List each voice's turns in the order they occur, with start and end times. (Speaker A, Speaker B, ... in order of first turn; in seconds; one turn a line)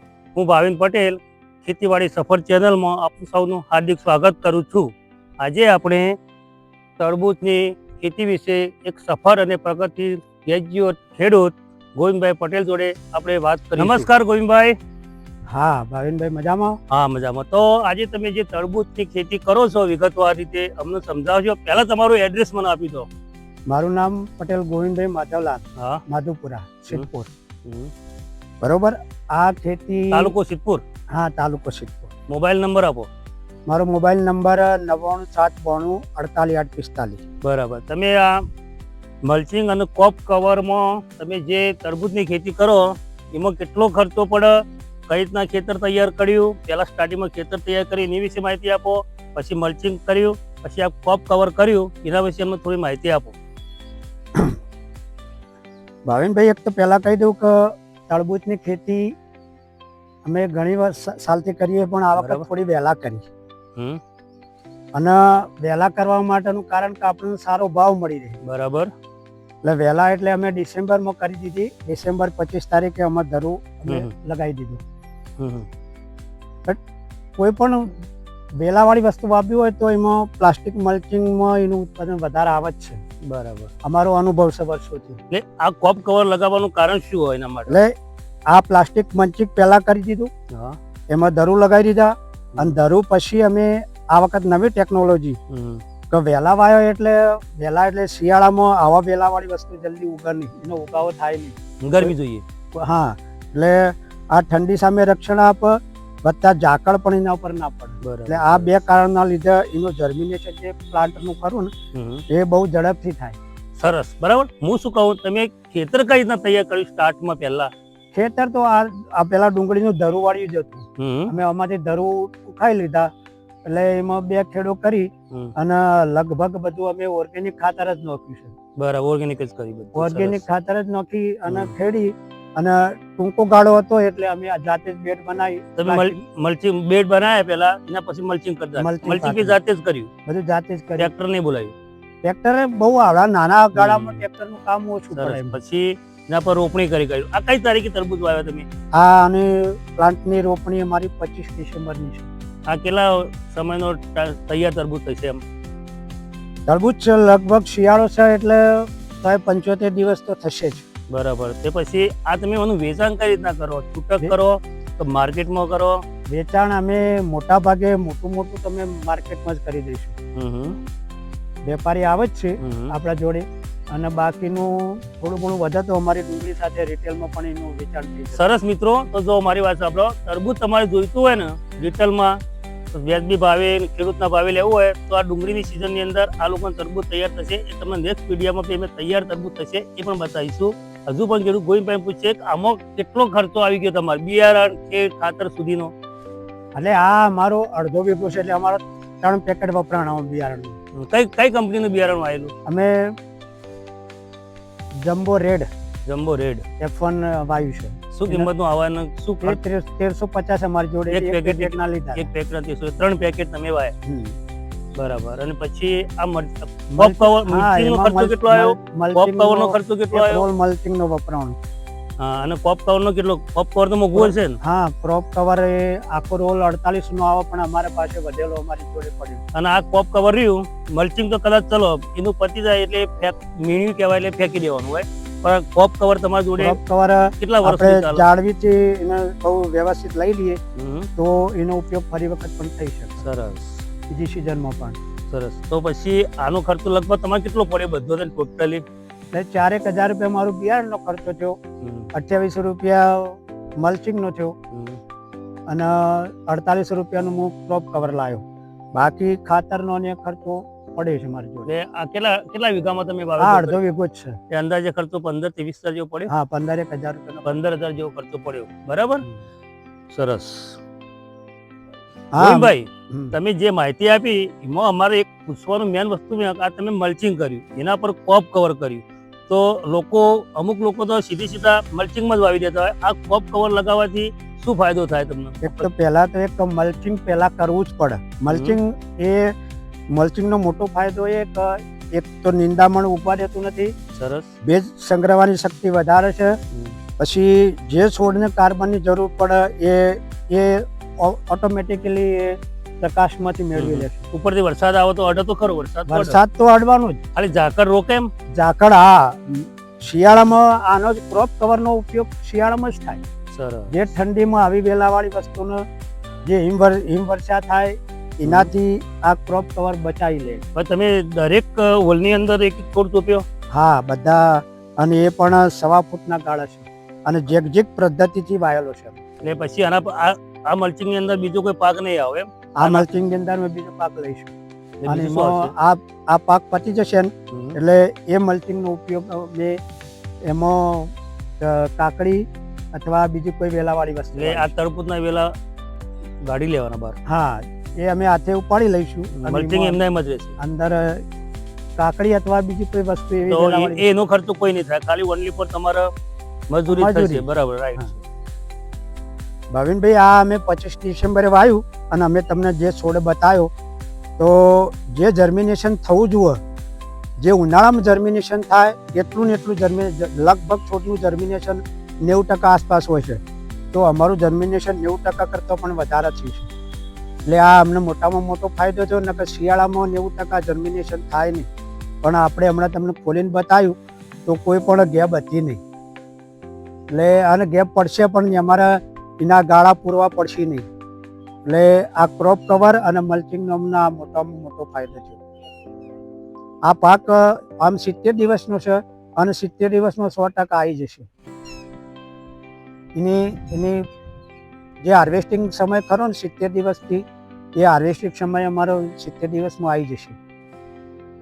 Speaker A: 0.3-6.2
Speaker A: 7.0-14.8
Speaker B: 13.8-14.1
Speaker B: 15.5-16.8
Speaker A: 16.9-23.1
Speaker B: 23.7-27.3
Speaker A: 25.8-26.0
Speaker A: 27.6-27.9
Speaker B: 28.6-30.3
Speaker A: 30.1-30.8
Speaker B: 31.1-32.1
Speaker A: 32.3-33.1
Speaker B: 33.7-37.2
Speaker A: 37.4-38.4
Speaker A: 39.2-53.3
Speaker B: 56.0-59.1
Speaker B: 60.2-63.3
Speaker A: 62.1-62.4
Speaker B: 64.9-68.4
Speaker A: 68.4-68.9
Speaker B: 69.6-74.8
Speaker A: 75.4-75.7
Speaker B: 77.4-78.0
Speaker B: 78.6-83.0
Speaker A: 83.3-83.7
Speaker B: 83.8-85.2
Speaker A: 85.3-87.8
Speaker B: 87.7-87.9
Speaker B: 88.5-90.3
Speaker A: 90.5-90.8
Speaker B: 91.1-95.4
Speaker A: 95.5-95.8
Speaker B: 96.1-102.1
Speaker A: 101.8-102.4
Speaker B: 102.8-111.7
Speaker A: 108.0-108.8
Speaker A: 111.9-112.2
Speaker B: 112.3-113.4
Speaker A: 113.8-117.7
Speaker B: 118.1-123.1
Speaker A: 121.0-121.3
Speaker B: 123.7-128.5
Speaker A: 128.8-130.4
Speaker B: 129.9-136.2
Speaker A: 131.5-131.7
Speaker A: 135.8-140.1
Speaker B: 138.8-139.6
Speaker B: 140.2-141.1
Speaker A: 141.0-141.7
Speaker B: 142.2-145.6
Speaker A: 143.7-144.2
Speaker A: 145.1-148.7
Speaker B: 148.9-152.3
Speaker A: 152.7-155.4
Speaker B: 156.7-160.8
Speaker A: 161.1-166.0
Speaker B: 166.3-170.1
Speaker A: 170.3-170.8
Speaker B: 171.6-178.4
Speaker A: 172.6-172.9
Speaker A: 178.3-182.4
Speaker A: 182.9-195.9
Speaker B: 196.7-200.8
Speaker A: 200.9-202.5
Speaker B: 202.7-203.1
Speaker B: 205.0-205.7
Speaker A: 206.1-206.6
Speaker B: 206.8-208.5
Speaker A: 208.1-209.6
Speaker B: 209.4-212.3
Speaker A: 211.1-213.9
Speaker B: 214.0-214.3
Speaker A: 214.9-220.4
Speaker B: 216.9-221.6
Speaker A: 222.2-224.6
Speaker B: 224.1-229.4
Speaker A: 229.5-236.8
Speaker B: 236.6-240.6
Speaker A: 237.4-238.3
Speaker A: 240.8-241.1
Speaker B: 241.2-243.2
Speaker A: 243.2-243.8
Speaker B: 244.1-245.0
Speaker A: 245.3-248.8
Speaker B: 249.3-251.6
Speaker A: 251.8-252.1
Speaker B: 252.1-254.5
Speaker A: 254.7-255.0
Speaker B: 255.7-261.7
Speaker A: 261.7-263.8
Speaker B: 263.4-264.4
Speaker A: 264.5-266.3
Speaker B: 266.3-267.6
Speaker A: 267.4-269.2
Speaker A: 270.1-270.8
Speaker B: 272.3-273.3
Speaker A: 272.4-285.9
Speaker B: 285.6-289.5
Speaker A: 288.5-288.8
Speaker B: 290.1-293.9
Speaker A: 294.1-294.5
Speaker B: 294.6-296.6
Speaker B: 297.2-304.2
Speaker A: 303.7-306.4
Speaker B: 306.1-307.2
Speaker A: 307.3-308.3
Speaker B: 308.5-313.2
Speaker A: 313.5-313.9
Speaker B: 313.9-315.8
Speaker B: 316.4-320.6
Speaker A: 318.4-318.7
Speaker A: 320.7-323.4
Speaker B: 323.7-329.2
Speaker A: 329.4-333.1
Speaker B: 332.8-334.5
Speaker A: 335.0-335.7
Speaker B: 335.1-339.8
Speaker A: 337.5-337.8
Speaker B: 340.4-344.7
Speaker A: 344.3-345.5
Speaker A: 346.4-347.1
Speaker B: 347.2-350.0
Speaker A: 349.4-350.6
Speaker B: 350.6-351.2
Speaker B: 352.0-354.1
Speaker A: 353.4-356.1
Speaker A: 356.7-358.2
Speaker B: 356.9-358.1
Speaker B: 359.7-363.7
Speaker B: 364.4-366.6
Speaker B: 367.4-373.4
Speaker B: 373.9-376.7
Speaker B: 377.4-381.7
Speaker B: 382.2-385.8
Speaker B: 387.1-390.9
Speaker B: 391.7-395.4
Speaker B: 396.8-401.3
Speaker B: 403.1-404.1
Speaker B: 405.0-410.4